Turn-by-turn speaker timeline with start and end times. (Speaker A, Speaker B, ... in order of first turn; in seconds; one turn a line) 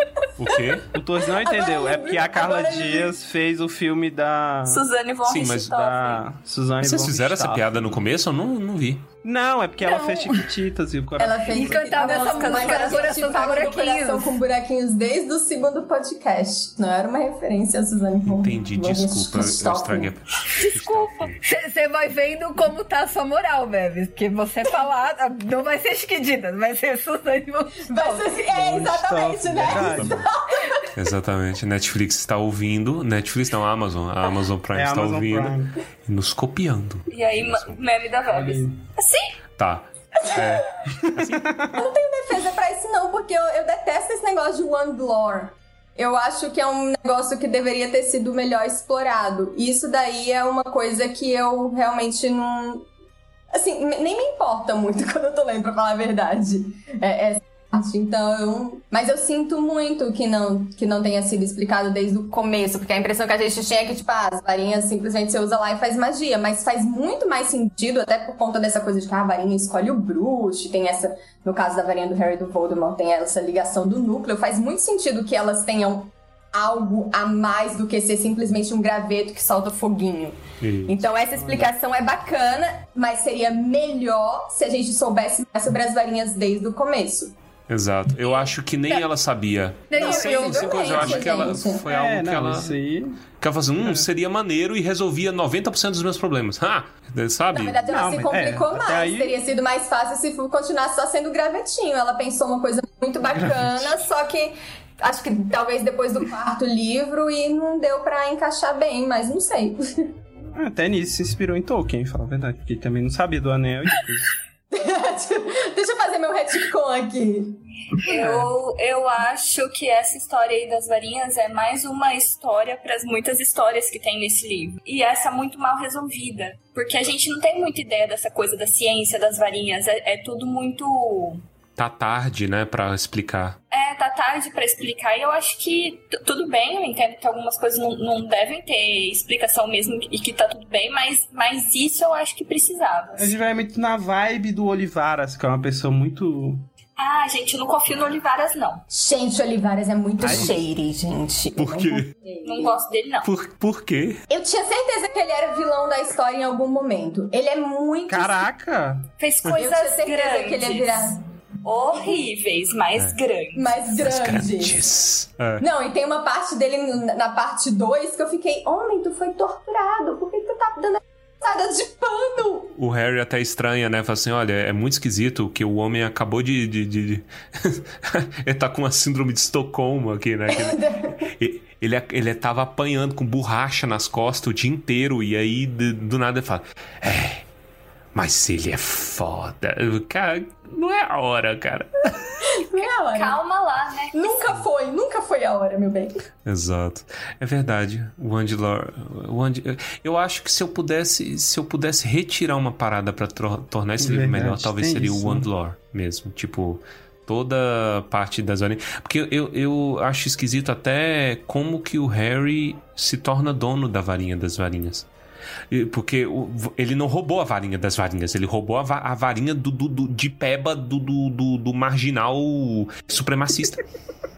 Speaker A: 0.4-0.9
Speaker B: 0.9-4.8
Speaker C: 1.4-3.1
Speaker D: 4.7-6.2
Speaker A: 5.2-5.8
Speaker B: 5.7-7.9
Speaker A: 6.8-9.1
Speaker B: 9.2-12.1
Speaker E: 9.8-10.5
Speaker C: 11.2-20.1
Speaker E: 11.5-14.4
Speaker D: 12.0-13.7
Speaker A: 18.2-21.4
Speaker E: 20.6-28.3
Speaker C: 27.9-30.9
Speaker B: 28.5-30.2
Speaker A: 29.7-30.3
Speaker A: 30.9-37.8
Speaker B: 34.7-35.8
Speaker D: 37.1-39.3
Speaker B: 38.3-38.8
Speaker A: 39.6-41.6
Speaker B: 41.1-41.7
Speaker C: 41.7-52.9
Speaker C: 53.5-87.3
Speaker A: 80.6-81.0
Speaker B: 81.4-81.7
Speaker A: 87.7-92.8
Speaker E: 89.9-91.6
Speaker C: 89.9-91.8
Speaker B: 91.8-93.2
Speaker A: 93.4-97.9
Speaker B: 93.8-94.1
Speaker C: 97.5-110.1
Speaker B: 97.9-99.3
Speaker B: 103.4-103.8
Speaker B: 110.5-114.3
Speaker C: 114.7-117.6
Speaker D: 118.0-131.4
Speaker B: 118.1-118.5
Speaker A: 131.8-133.6
Speaker D: 133.7-143.3
Speaker B: 143.2-146.7
Speaker D: 147.0-148.8
Speaker C: 148.9-152.8
Speaker B: 150.2-150.5
Speaker A: 151.6-152.1
Speaker D: 152.4-153.3
Speaker A: 153.2-154.2
Speaker C: 154.3-158.5
Speaker B: 158.1-159.1
Speaker D: 159.2-163.8
Speaker C: 159.5-161.2
Speaker C: 163.5-164.8
Speaker A: 164.0-165.6
Speaker C: 165.6-172.7
Speaker A: 172.8-187.4
Speaker C: 180.5-181.3
Speaker A: 188.1-192.4
Speaker C: 192.5-193.4
Speaker D: 192.8-194.4
Speaker C: 194.1-196.2
Speaker A: 196.4-215.1
Speaker B: 204.0-205.5
Speaker A: 215.7-223.8